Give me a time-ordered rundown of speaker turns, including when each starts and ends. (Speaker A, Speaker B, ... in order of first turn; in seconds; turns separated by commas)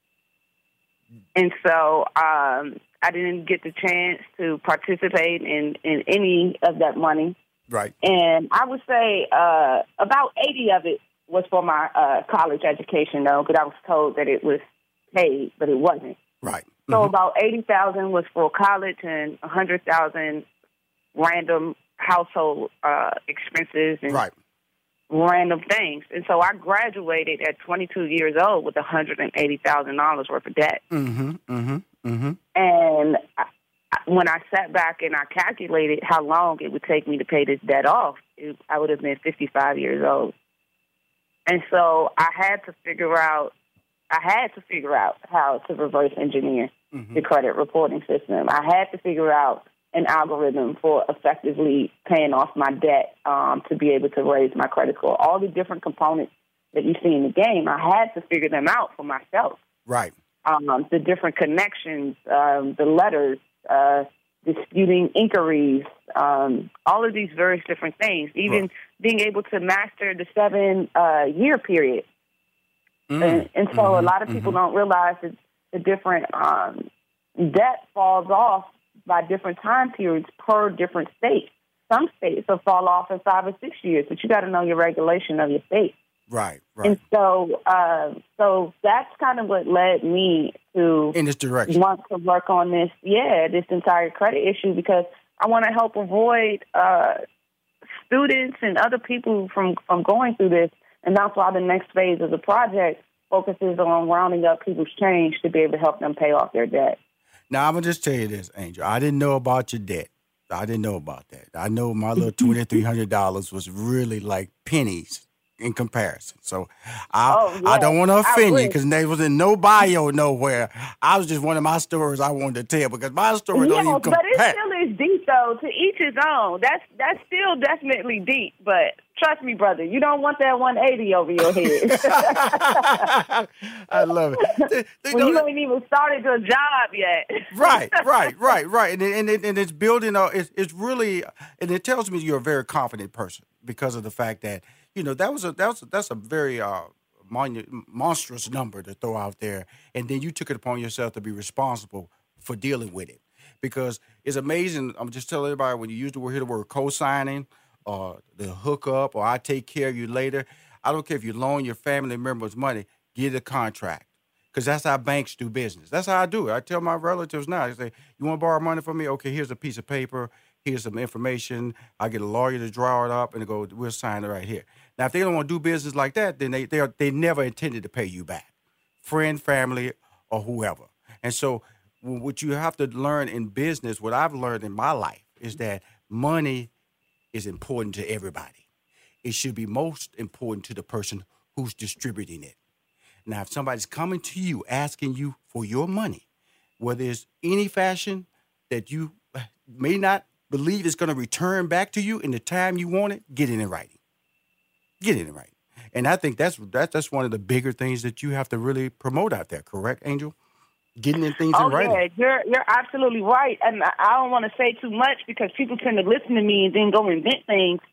Speaker A: 1.3-7.3, Speaker B: 7.7-7.9, Speaker A: 8.0-14.6, Speaker A: 15.1-16.2, Speaker B: 16.4-17.1, Speaker A: 16.9-20.4, Speaker A: 21.1-24.2, Speaker A: 25.1-30.8, Speaker B: 30.9-32.4, Speaker A: 32.5-33.5, Speaker A: 34.0-40.3, Speaker A: 41.5-43.5, Speaker A: 44.1-59.6, Speaker B: 46.9-47.2, Speaker B: 59.9-60.1, Speaker A: 60.5-72.1, Speaker B: 73.1-74.6, Speaker A: 73.2-76.9, Speaker A: 77.4-86.0, Speaker B: 86.3-87.0, Speaker A: 86.8-91.2, Speaker B: 91.1-91.8, Speaker A: 91.7-97.2, Speaker A: 98.0-107.0, Speaker B: 107.5-124.5, Speaker A: 117.3-118.8, Speaker A: 123.5-133.1, Speaker B: 131.5-135.4, Speaker A: 133.9-138.3, Speaker B: 137.5-178.5, Speaker B: 179.0-186.7, Speaker B: 187.3-188.6, Speaker B: 189.2-192.6, Speaker B: 193.2-196.2, Speaker B: 196.8-203.9, Speaker B: 205.0-210.3, Speaker B: 211.0-212.0, Speaker A: 211.5-217.8